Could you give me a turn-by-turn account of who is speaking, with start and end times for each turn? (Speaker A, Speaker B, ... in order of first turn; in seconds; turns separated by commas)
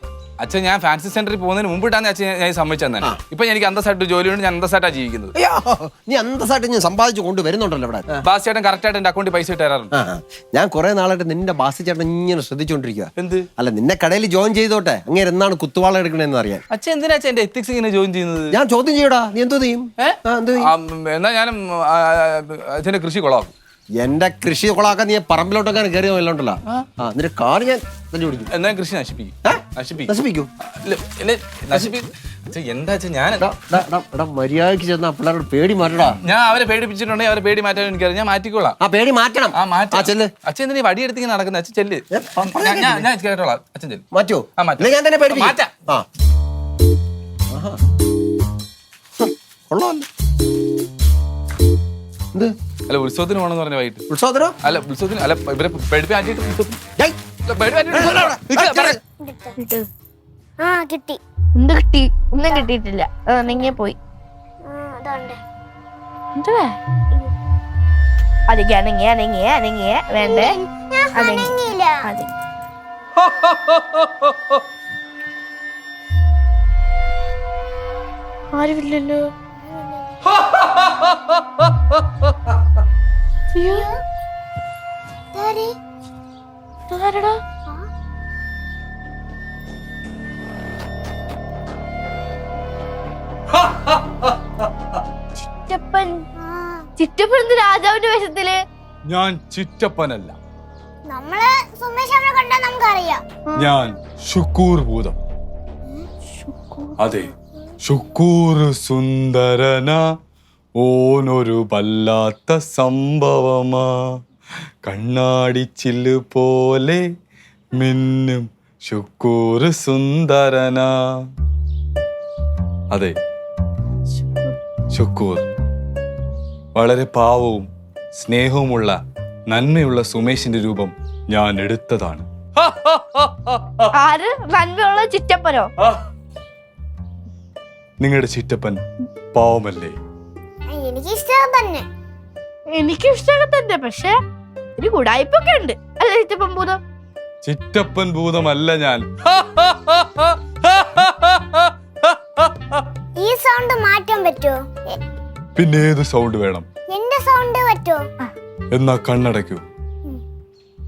Speaker A: 0.4-5.3, Speaker B: 5.3-8.2, Speaker A: 8.2-9.9, Speaker B: 9.9-16.6, Speaker A: 13.2-13.4, Speaker A: 16.7-18.5, Speaker B: 18.5-20.7, Speaker A: 20.0-23.5, Speaker B: 24.0-28.5, Speaker A: 28.5-33.4, Speaker B: 29.4-30.5, Speaker B: 33.4-36.2, Speaker A: 36.1-38.8, Speaker B: 38.8-40.3, Speaker A: 39.5-44.0, Speaker B: 42.1-43.1, Speaker B: 44.1-46.0, Speaker A: 44.6-45.7, Speaker B: 47.5-47.8, Speaker B: 49.2-50.1, Speaker A: 52.9-54.0, Speaker B: 54.1-54.5, Speaker A: 54.6-56.8, Speaker A: 57.5-59.0, Speaker B: 57.9-59.0, Speaker C: 59.2-59.5, Speaker D: 59.6-59.9, Speaker C: 60.6-61.2, Speaker D: 61.5-64.0, Speaker C: 64.6-65.4, Speaker D: 66.4-66.8, Speaker D: 68.5-70.5, Speaker C: 70.2-72.0, Speaker D: 71.1-72.3, Speaker D: 78.5-79.3, Speaker D: 83.5-83.9, Speaker C: 83.7-84.0, Speaker C: 85.3-85.7, Speaker D: 86.9-87.3, Speaker D: 95.4-96.2, Speaker C: 96.4-96.8, Speaker D: 97.0-98.6, Speaker E: 99.1-100.3, Speaker C: 101.1-103.2, Speaker E: 103.6-105.2, Speaker D: 106.4-106.9, Speaker E: 107.0-107.3, Speaker E: 107.8-110.0, Speaker E: 110.8-113.9, Speaker E: 114.8-117.0, Speaker E: 117.8-120.9, Speaker D: 124.2-124.5, Speaker E: 124.9-125.5, Speaker E: 126.7-129.0, Speaker E: 129.5-132.2, Speaker A: 132.6-133.6, Speaker D: 133.9-135.7, Speaker E: 138.0-138.8, Speaker E: 139.3-140.0, Speaker C: 140.7-141.8, Speaker D: 142.7-144.1, Speaker D: 144.8-146.8, Speaker E: 147.4-152.8, Speaker C: 153.2-155.0, Speaker E: 155.6-156.7, Speaker C: 156.9-158.0, Speaker E: 158.7-159.6